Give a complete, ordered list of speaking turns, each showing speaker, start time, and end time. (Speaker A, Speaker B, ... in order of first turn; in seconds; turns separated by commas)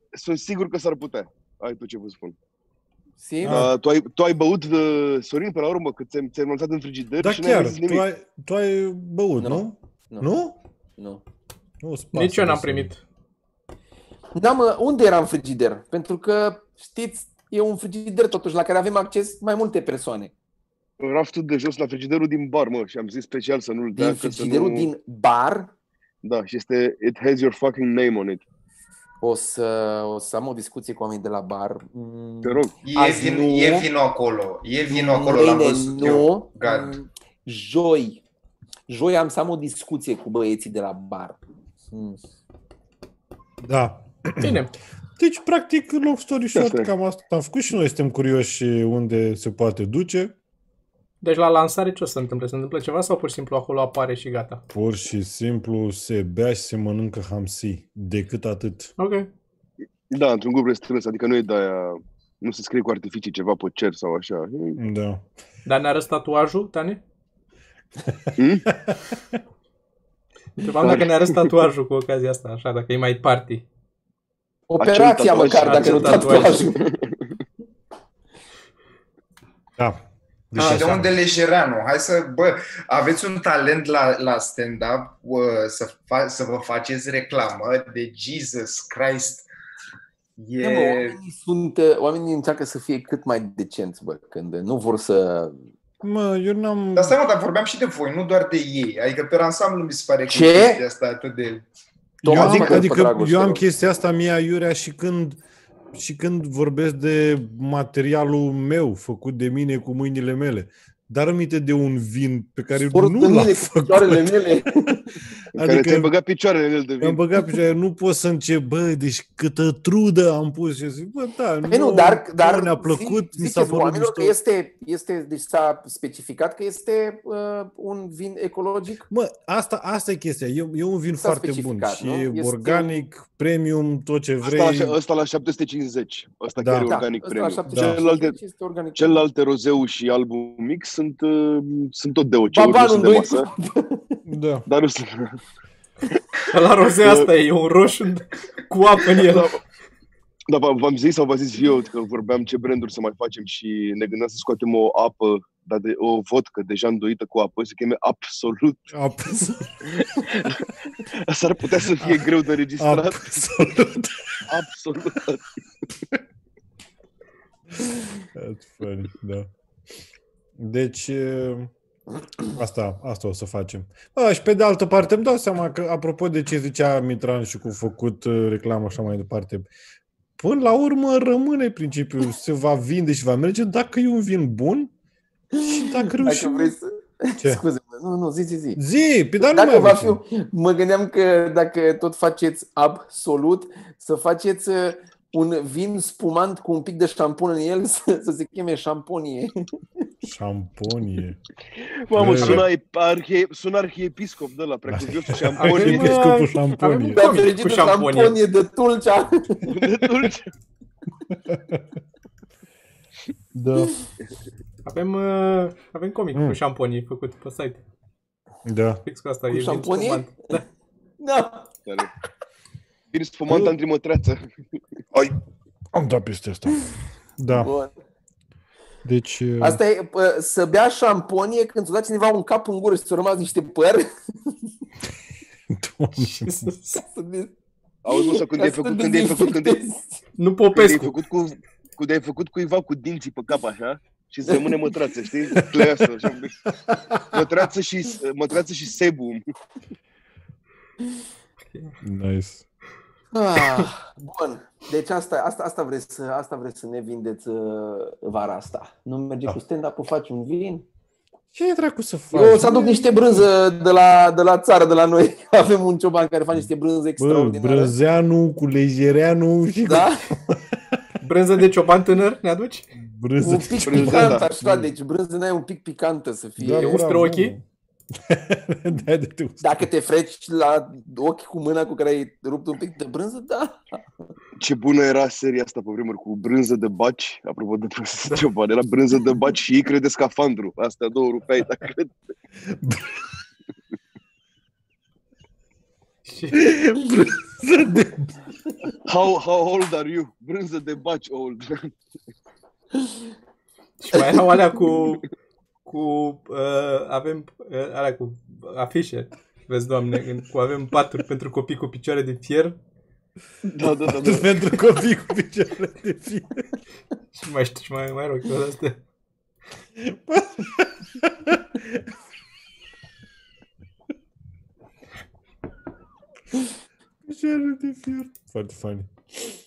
Speaker A: 0.1-2.4, Speaker B: 3.2-3.7, Speaker C: 3.4-3.7, Speaker A: 3.5-8.0, Speaker C: 7.2-10.6, Speaker B: 9.4-10.3, Speaker C: 11.8-12.9, Speaker D: 12.1-13.0, Speaker B: 14.3-20.3, Speaker A: 21.0-24.9, Speaker B: 24.0-25.7, Speaker A: 26.2-28.4, Speaker B: 29.2-33.9, Speaker A: 32.4-32.8, Speaker E: 32.8-37.0, Speaker B: 34.9-38.2, Speaker B: 38.9-41.4, Speaker B: 41.9-42.2, Speaker C: 43.6-44.6, Speaker D: 44.4-44.7, Speaker C: 45.2-50.3, Speaker A: 46.6-46.9, Speaker D: 51.2-54.6, Speaker C: 54.7-58.9, Speaker D: 59.0-59.3, Speaker A: 60.1-64.8, Speaker C: 64.8-65.2, Speaker D: 65.6-67.0, Speaker C: 68.1-69.4, Speaker A: 68.4-68.7, Speaker D: 70.6-73.6, Speaker A: 70.8-71.5, Speaker B: 74.7-76.8, Speaker A: 74.8-77.3, Speaker D: 75.6-76.6, Speaker C: 79.8-81.1, Speaker E: 80.5-89.5, Speaker E: 90.4-91.2, Speaker B: 90.6-95.6, Speaker C: 96.0-97.2, Speaker E: 97.0-101.6, Speaker B: 100.3-100.8, Speaker C: 102.2-105.4, Speaker B: 102.2-103.6, Speaker E: 102.3-102.7, Speaker C: 105.9-114.9, Speaker B: 112.7-115.1, Speaker C: 115.5-116.1, Speaker A: 115.5-117.2, Speaker C: 117.0-124.4, Speaker B: 121.7-129.1, Speaker C: 129.1-134.9, Speaker B: 131.2-133.0, Speaker A: 134.4-138.4, Speaker C: 136.6-136.9, Speaker B: 136.8-139.2, Speaker C: 137.7-138.0, Speaker A: 138.9-143.5, Speaker B: 142.5-144.2, Speaker C: 144.2-144.7, Speaker A: 144.7-145.4, Speaker D: 146.5-149.5, Speaker A: 147.0-147.3, Speaker A: 149.1-149.6, Speaker A: 150.5-158.9, Speaker C: 158.9-159.9, Speaker A: 159.9-163.7, Speaker C: 162.8-164.4, Speaker A: 164.5-165.4, Speaker C: 168.3-169.5, Speaker C: 170.6-171.7, Speaker C: 172.5-179.7, Speaker C: 180.4-184.9, Speaker B: 185.5-188.8, Speaker C: 185.6-186.8, Speaker C: 188.8-190.2, Speaker B: 189.4-199.5, Speaker C: 200.2-201.4, Speaker A: 201.7-206.3, Speaker C: 202.1-202.7, Speaker C: 204.9-207.3, Speaker D: 205.6-208.4, Speaker B: 207.2-209.8, Speaker A: 209.7-210.5, Speaker C: 211.3-211.8, Speaker C: 213.5-213.9, Speaker D: 214.8-217.8, Speaker C: 218.6-219.0, Speaker D: 219.1-220.6, Speaker B: 219.5-220.3, Speaker B: 221.2-221.7, Speaker A: 223.1-224.8, Speaker C: 223.5-223.7, Speaker C: 225.9-227.7, Speaker B: 227.5-227.9, Speaker C: 229.0-229.8, Speaker B: 229.6-234.1, Speaker C: 235.7-236.7, Speaker D: 236.2-237.0, Speaker B: 236.9-237.5, Speaker A: 238.0-239.8, Speaker B: 238.1-240.2, Speaker D: 240.4-241.2, Speaker A: 240.7-246.7, Speaker C: 245.6-246.1, Speaker C: 246.8-247.4, Speaker A: 247.3-249.4, Speaker D: 251.7-252.0, Speaker C: 252.0-252.6, Speaker B: 253.3-260.9, Speaker C: 261.6-263.1, Speaker B: 262.3-267.9, Speaker C: 267.2-271.0, Speaker B: 269.9-270.3, Speaker D: 271.2-272.9, Speaker C: 272.9-274.9, Speaker B: 273.4-277.0, Speaker A: 273.9-274.5, Speaker C: 276.6-279.9, Speaker D: 276.8-277.6, Speaker B: 279.6-283.8, Speaker A: 284.6-292.1, Speaker C: 292.7-293.2, Speaker D: 296.2-296.7, Speaker C: 296.5-298.4, Speaker A: 299.1-301.9, Speaker D: 304.0-305.3, Speaker D: 305.9-312.8, Speaker A: 313.6-314.6, Speaker C: 314.0-316.7, Speaker D: 317.3-319.0, Speaker C: 320.0-322.0, Speaker C: 327.2-329.1